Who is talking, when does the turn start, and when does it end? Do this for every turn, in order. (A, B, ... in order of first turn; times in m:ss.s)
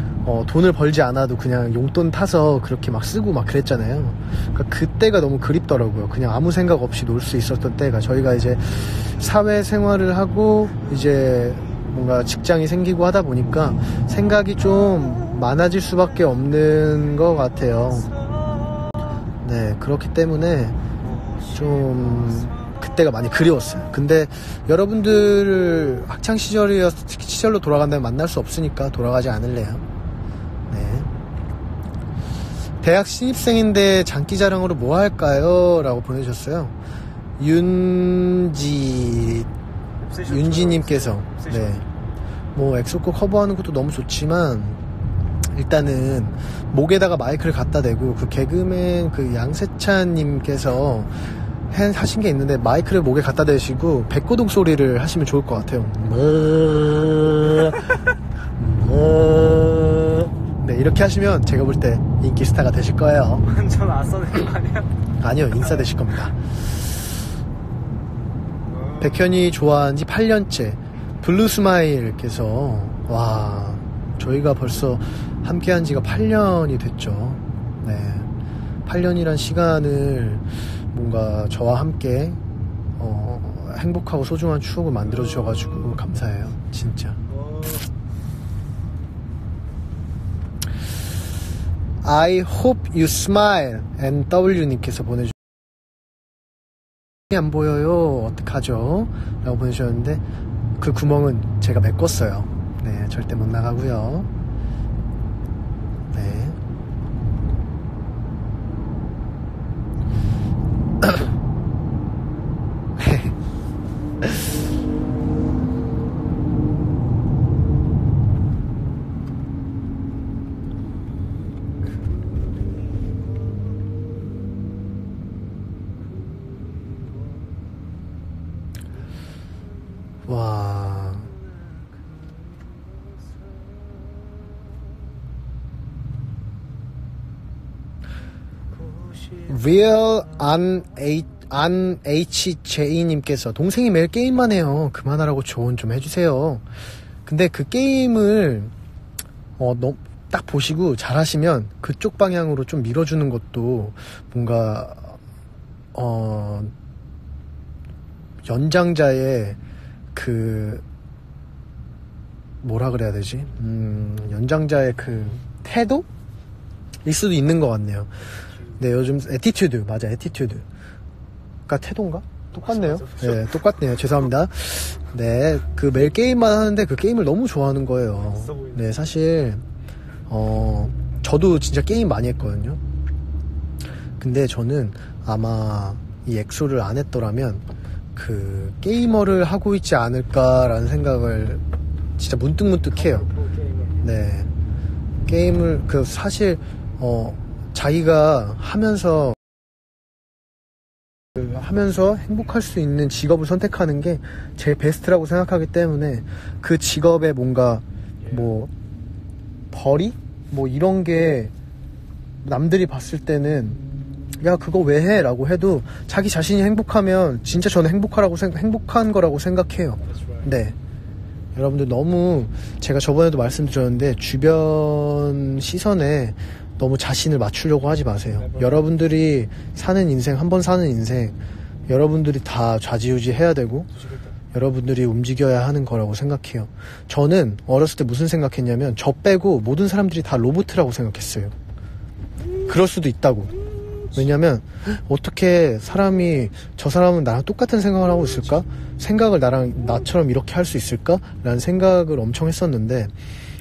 0:00.2-0:18.2 A
0:18.2-0:18.6 B
0:19.4-0:20.8 A
0:21.0-0:22.6 B
0:21.5-0:29.8 A
0:30.7-0:31.1 A
0:32.8-0:36.8 A
0:37.4-0:39.5 A
0:40.0-0:41.8 B
0:40.2-0:41.8 A
0:42.6-0:44.8 A
0:45.5-0:58.0 A
0:58.6-1:03.5 A
1:03.4-1:04.9 B
1:05.2-1:06.5 A
1:09.0-1:18.3 A
1:18.9-1:22.4 A
1:23.0-1:27.2 A
1:27.3-1:27.8 B
1:32.0-1:35.4 A
1:37.3-1:40.2 A
1:40.8-1:44.3 A
1:46.1-1:46.6 A
1:53.0-1:53.3 A
2:10.3-2:11.3 A
2:18.9-2:19.3 B
2:19.4-2:26.6 A
2:27.2-2:28.7 A
2:29.6-2:35.2 A
2:35.9-2:36.7 A
2:38.5-2:39.6 A
2:40.2-2:40.8 A
2:42.6-2:46.1 A
2:47.0-2:48.1 A
2:48.7-2:50.6 A
2:51.7-2:59.6 A
2:52.6-2:53.5 B
2:58.3-2:58.7 B
3:00.3-3:02.8 A
3:04.2-3:11.6 A
3:12.2-3:13.3 A
3:12.9-3:14.0 B
3:14.0-3:14.5 A
3:15.3-3:19.4 A
3:21.4-3:28.7 A
3:29.7-3:31.5 A
3:32.4-3:33.8 A
3:34.4-3:40.8 A
3:41.6-3:51.4 A
3:48.5-3:48.8 B
3:51.9-3:53.9 A
3:54.5-4:01.5 A
4:02.7-4:03.6 A
4:04.1-4:13.1 A